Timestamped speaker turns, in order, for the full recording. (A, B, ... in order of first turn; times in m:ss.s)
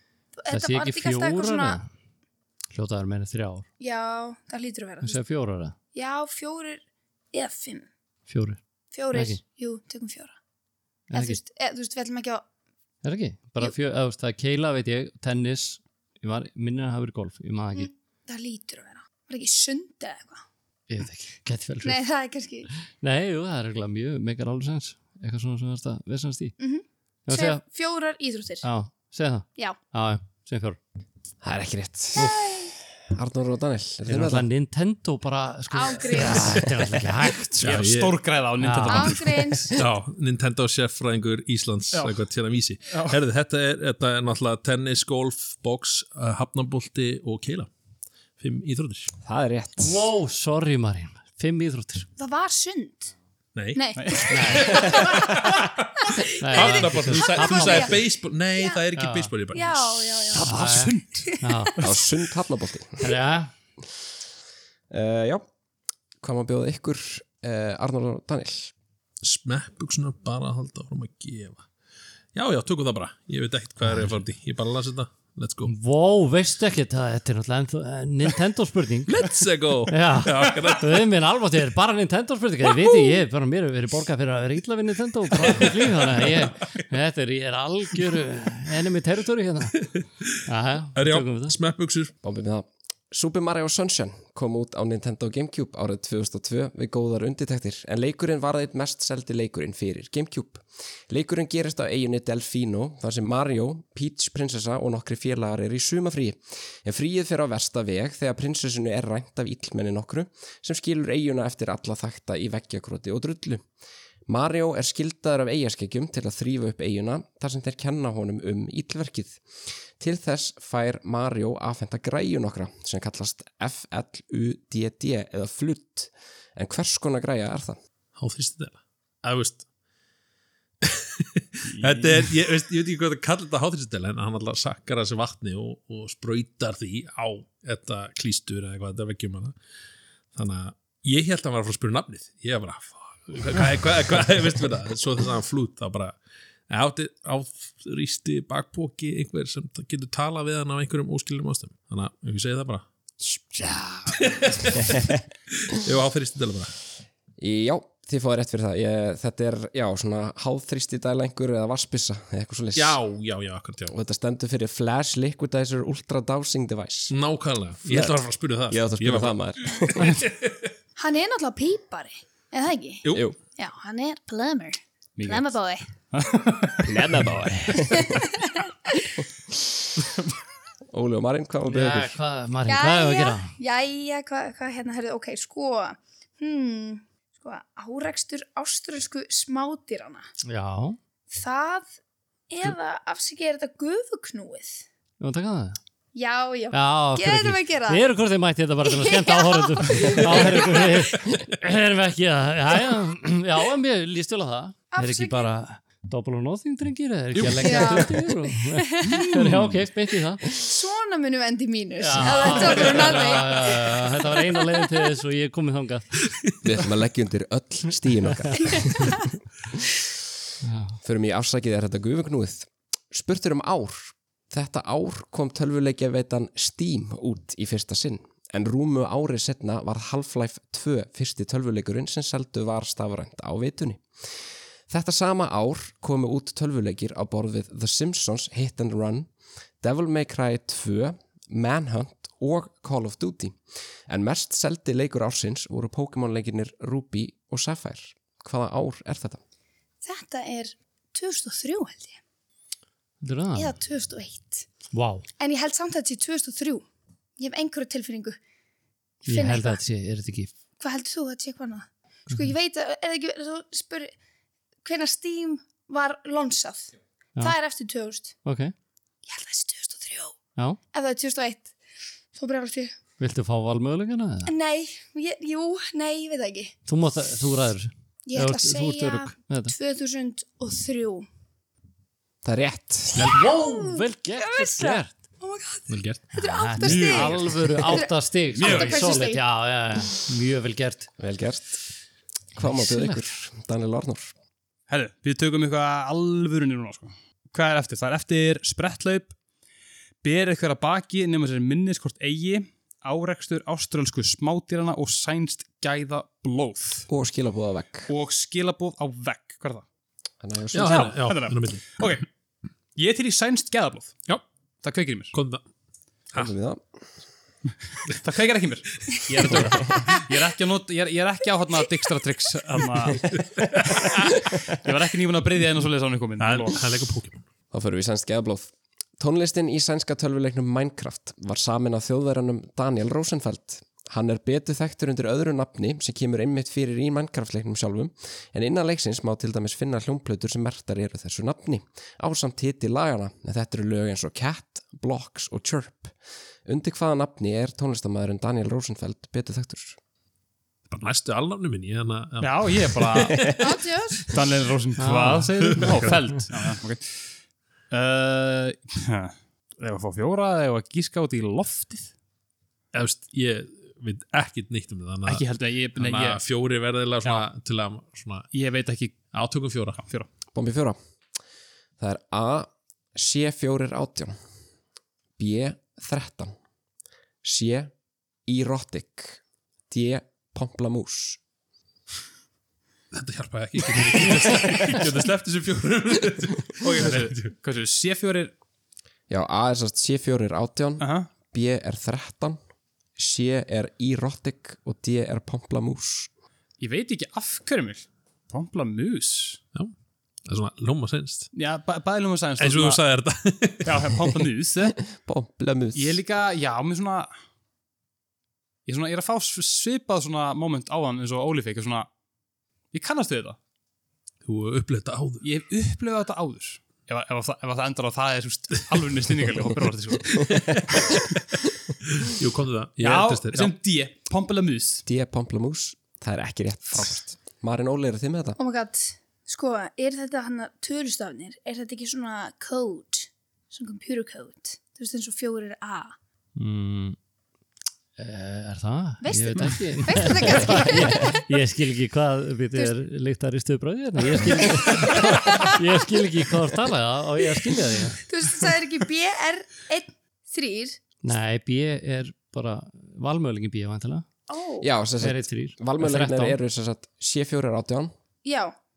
0:00.4-0:01.8 A
0:00.5-0:01.9 B
0:02.7-0:03.7 B
0:03.8-0:05.2 A
0:05.0-0:05.8 B
0:05.9-0:06.8 A
0:07.3-0:07.9 A
0:08.3-0:08.6 B
0:08.9-0:10.3 A
0:09.1-0:09.4 B
0:11.1-0:11.4 B
0:11.1-0:12.4 A
0:13.0-0:17.9 B
0:17.7-0:20.4 A
0:20.9-0:22.0 B
0:21.8-0:22.7 A
0:23.0-0:26.5 B
0:26.6-0:28.6 A
0:27.3-0:27.6 B
0:28.6-0:30.8 B
0:31.4-0:32.3 C
0:32.1-0:32.7 A
0:33.0-0:34.5 C
0:34.1-0:37.8 B
0:35.7-0:36.6 A
0:37.6-0:38.2 D
0:37.6-0:39.4 E
0:38.6-0:39.2 B
0:38.9-0:39.7 A
0:39.6-0:47.7 D
0:41.9-0:42.2 E
0:42.9-0:43.2 E
0:48.4-0:49.1 D
0:49.2-0:50.1 C
0:49.8-0:52.1 B
0:52.2-0:53.1 A
0:53.5-1:00.2 D
0:53.7-0:57.9 A
0:54.0-0:54.4 E
0:54.3-0:54.9 B
0:56.4-0:57.9 B
0:58.9-0:59.3 B
0:59.5-1:00.6 A
1:00.3-1:01.3 E
1:00.3-1:01.7 B
1:01.8-1:03.1 C
1:03.0-1:03.5 B
1:04.9-1:05.4 C
1:06.2-1:08.7 C
1:09.2-1:11.7 D
1:12.3-1:15.7 D
1:13.8-1:14.1 B
1:15.6-1:19.2 B
1:19.1-1:21.1 D
1:19.9-1:29.8 B
1:25.4-1:26.5 D
1:30.4-1:31.6 B
1:30.9-1:32.1 D
1:32.2-1:53.6 C
1:54.3-1:59.4 C
2:00.0-2:07.8 C
2:08.2-2:09.6 D
2:10.8-2:19.6 D
2:11.8-2:12.2 E
2:20.3-2:26.2 D
2:26.7-2:32.8 D
2:34.1-2:36.7 D
2:34.8-2:35.2 C
2:37.4-2:43.0 C
2:42.7-2:43.9 D
2:43.9-2:47.2 C
2:47.1-2:49.4 D
2:47.8-2:50.2 C
2:49.9-2:50.7 D
2:51.0-2:55.9 A
2:53.0-2:53.3 D
2:53.1-2:53.4 C
2:55.2-2:55.5 E
2:56.1-2:56.9 E
2:56.8-2:58.3 C
2:57.9-2:59.1 A
3:00.9-3:02.2 C
3:01.6-3:03.5 B
3:02.7-3:10.3 A
3:10.4-3:11.0 B
3:11.3-3:11.9 A
3:12.5-3:14.8 A
3:15.2-3:15.8 B
3:16.1-3:18.0 A
3:16.7-3:30.5 B
3:18.8-3:21.0 A
3:24.9-3:25.5 A
3:27.4-3:27.9 D
3:27.6-3:29.5 A
3:30.5-3:34.8 A
3:32.0-3:36.2 B
3:36.6-3:39.3 C
3:38.7-3:39.0 A
3:40.6-3:41.0 B
3:41.0-3:54.0 C
3:54.9-3:59.3 C
3:59.8-4:09.4 C
4:10.0-4:12.2 A
4:13.2-4:13.7 B
4:13.5-4:14.6 A
4:14.9-4:15.2 B
4:15.4-4:16.8 A
4:17.4-4:18.4 A
4:19.2-4:19.8 A
4:19.2-4:20.5 B
4:20.8-4:24.1 A
4:24.8-4:28.3 A
4:28.4-4:28.7 B
4:29.2-4:30.3 A
4:30.9-4:31.7 A
4:32.3-4:32.9 A
4:33.2-4:34.5 B
4:34.4-4:36.7 A
4:36.9-4:39.7 B
4:38.2-4:41.2 A
4:42.4-4:43.4 C
4:43.2-4:45.2 B
4:43.3-4:49.4 A
4:45.9-4:46.3 D
4:46.4-4:51.1 B
4:46.8-4:47.6 E
4:48.5-4:49.2 E
4:51.2-4:51.8 C
4:52.6-4:53.2 B
4:52.6-4:54.3 C
4:54.9-4:59.3 E
5:00.2-5:07.1 E
5:07.1-5:08.1 C
5:08.1-5:09.8 E
5:10.4-5:11.2 C
5:10.7-5:11.9 D
5:10.8-5:12.3 E
5:13.0-5:14.2 E
5:14.8-5:15.3 E
5:15.3-5:15.6 D
5:16.3-5:16.8 C
5:18.1-5:23.3 E
5:19.1-5:19.9 D
5:23.3-5:24.3 D
5:23.9-5:26.8 E
5:26.4-5:27.4 D
5:27.7-5:46.1 C
5:46.6-5:50.0 C
5:50.9-5:53.7 D
5:52.4-5:53.5 E
5:53.6-5:54.3 A
5:54.2-5:57.3 E
5:55.0-5:55.9 B
5:55.7-5:56.2 D
5:57.9-6:02.1 E
6:02.9-6:08.5 D
6:05.2-6:06.4 E
6:08.5-6:09.2 E
6:09.3-6:10.0 D
6:10.0-6:10.3 E
6:10.5-6:11.0 C
6:12.0-6:14.4 C
6:15.4-6:16.5 C
6:17.4-6:17.9 C
6:18.5-6:21.4 C
6:23.1-6:27.5 D
6:24.0-6:25.0 E
6:26.8-6:28.5 E
6:29.3-6:32.6 C
6:31.0-6:31.3 E
6:33.2-6:36.3 C
6:36.8-6:39.6 E
6:40.5-6:41.5 D
6:41.5-6:43.0 E
6:42.6-6:44.1 D
6:43.8-6:45.0 E
6:45.0-6:46.2 C
6:45.9-6:47.3 E
6:48.8-6:52.1 E
6:52.9-6:53.6 E
6:54.4-6:55.4 D
6:55.4-7:00.5 E
7:00.5-7:01.2 D
7:02.1-7:03.7 D
7:03.0-7:05.0 E
7:05.0-7:08.6 C
7:08.6-7:16.1 A
7:16.6-7:17.2 B
7:18.2-7:28.2 B
7:19.2-7:21.4 A
7:24.3-7:25.8 A
7:28.2-7:31.0 A
7:31.2-7:34.2 B
7:34.5-7:34.9 A
7:34.8-7:38.1 C
7:35.2-7:36.6 B
7:38.4-7:38.7 A